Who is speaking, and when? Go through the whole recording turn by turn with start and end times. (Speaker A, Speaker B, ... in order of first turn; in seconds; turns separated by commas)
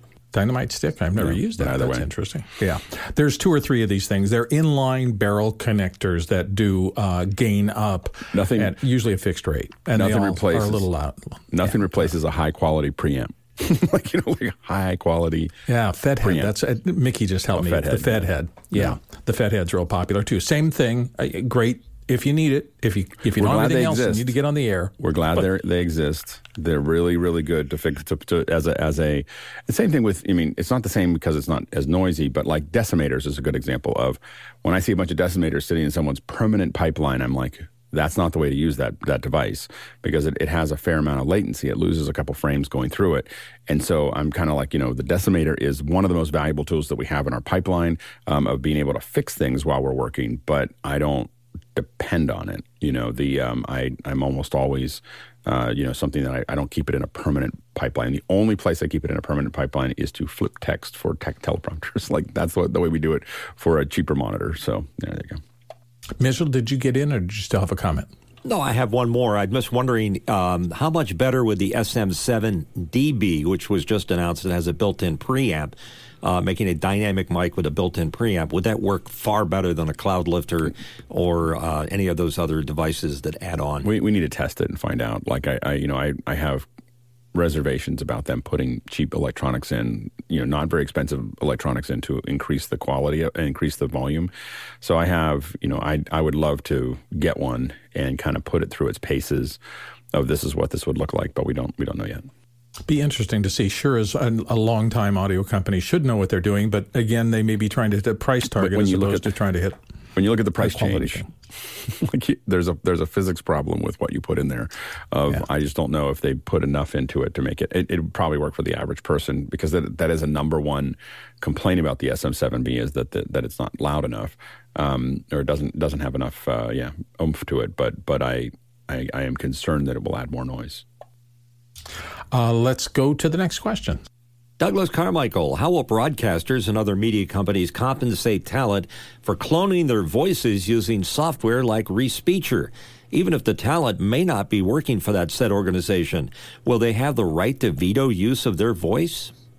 Speaker A: 0.3-11.8, Speaker B: 1.2-2.1, Speaker B: 8.3-8.8, Speaker B: 9.9-10.9, Speaker B: 11.5-15.5, Speaker A: 15.7-24.9, Speaker B: 16.2-16.5, Speaker B: 17.5-19.0, Speaker B: 23.4-24.3, Speaker B: 25.0-65.4, Speaker A: 66.2-68.1, Speaker C: 68.4-83.9, Speaker B: 83.8-86.7, Speaker B: 87.3-99.6, Speaker B: 100.1-102.3, Speaker A: 102.9-109.8, Speaker B: 108.5-109.4, Speaker B: 110.2-130.8, Speaker A: 110.6-111.3, Speaker A: 132.3-134.0, Speaker C: 134.6-149.3